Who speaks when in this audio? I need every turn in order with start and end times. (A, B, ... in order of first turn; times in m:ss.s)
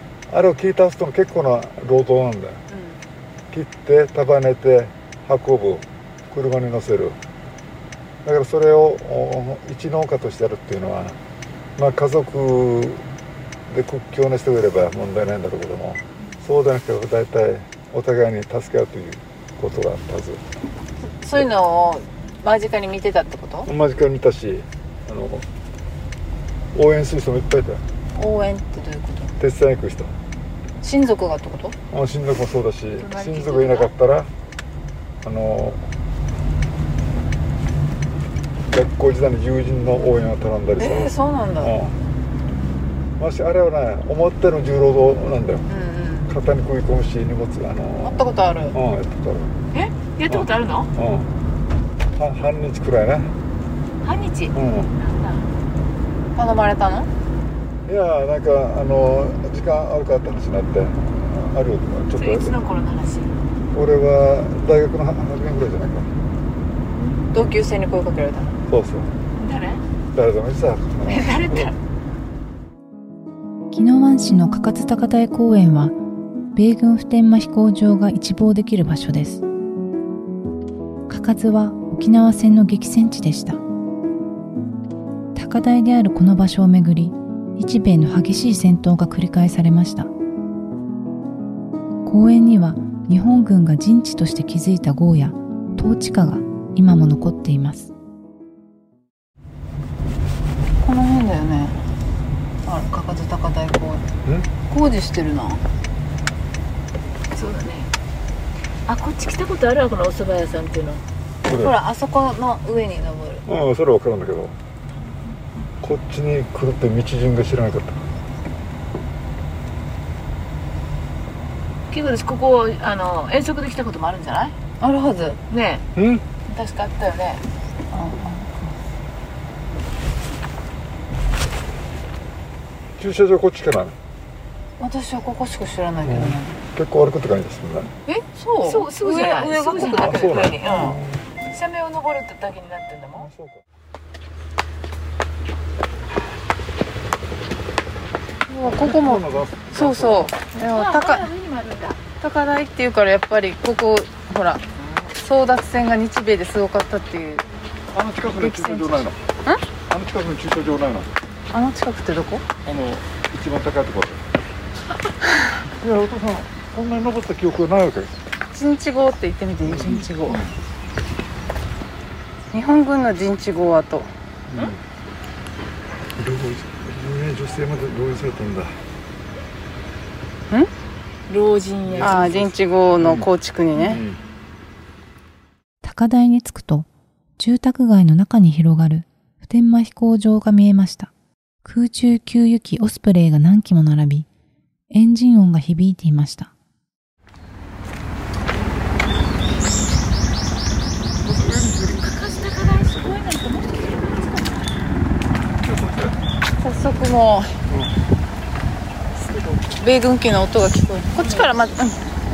0:00.3-0:02.6 A
0:02.7-0:03.0 B
0:03.5-0:07.2 A
0:08.2-0:11.2 A
0:11.8-0:13.0 A
0:13.7-0:20.4 A
0:21.2-0:23.7 B
0:23.6-0:25.4 A
0:26.7-0:27.8 A
0:28.1-0:29.3 B
0:29.4-0:30.1 A
0:30.8-0:31.8 B
0:31.9-0:34.3 A
0:33.0-0:33.9 C
0:35.2-0:35.8 A
0:38.6-0:42.0 A
0:40.8-0:41.7 B
0:43.2-0:45.7 A
0:45.7-0:46.3 B
0:46.3-0:49.5 A
0:48.0-0:48.8 B
0:49.7-0:50.9 C
0:50.3-0:51.3 A
0:52.2-0:53.3 A
0:54.0-0:55.5 C
0:54.5-0:54.9 A
0:56.4-0:57.1 B
0:57.8-1:02.5 A
1:02.2-1:03.4 C
1:03.7-1:06.1 A
1:07.0-1:07.3 C
1:07.3-1:08.5 B
1:08.7-1:09.1 A
1:09.4-1:09.8 C
1:10.1-1:11.7 A
1:11.0-1:11.8 C
1:13.7-1:16.0 D
1:16.5-1:19.4 D
1:21.1-1:23.6 D
1:25.3-1:30.1 D
1:32.0-1:37.9 D
1:40.8-1:41.8 B
1:42.6-1:44.0 B
1:44.7-1:45.6 B
1:47.3-1:47.9 C
1:48.9-1:51.0 C
1:51.4-1:51.8 A
1:51.5-1:53.4 B
1:53.4-1:54.6 A
1:55.8-1:58.0 A
2:01.9-2:04.6 C
2:04.8-2:05.4 B
2:05.5-2:05.8 C
2:06.0-2:06.2 A
2:06.5-2:07.4 C
2:07.9-2:08.7 B
2:13.0-2:14.0 A
2:14.8-2:16.6 B
2:16.0-2:17.9 A
2:18.1-2:20.9 B
2:18.6-2:23.3 C
2:19.8-2:21.2 A
2:23.2-2:23.6 A
2:28.5-2:31.3 B
2:28.8-2:30.3 A
2:30.5-2:32.0 C
2:32.2-2:37.5 B
2:37.9-2:39.2 A
2:38.3-2:39.6 B
2:39.9-2:41.1 A
2:41.5-2:42.4 B
2:42.6-2:44.2 A
2:45.7-2:48.1 A
2:48.5-2:50.4 B
2:49.6-2:50.5 A
2:52.5-2:54.7 B
2:54.5-2:54.8 A
2:56.2-2:58.8 A
3:01.3-3:02.4 C
3:01.8-3:03.3 A
3:02.0-3:04.0 B
3:03.8-3:04.2 A
3:05.8-3:11.1 D
3:11.6-3:14.3 D
3:14.9-3:16.5 D
3:21.2-3:22.0 A
3:21.2-3:24.8 C
3:25.6-3:26.2 A
3:26.6-3:27.6 B
3:29.2-3:29.8 C
3:29.8-3:32.0 B
3:31.0-3:31.8 C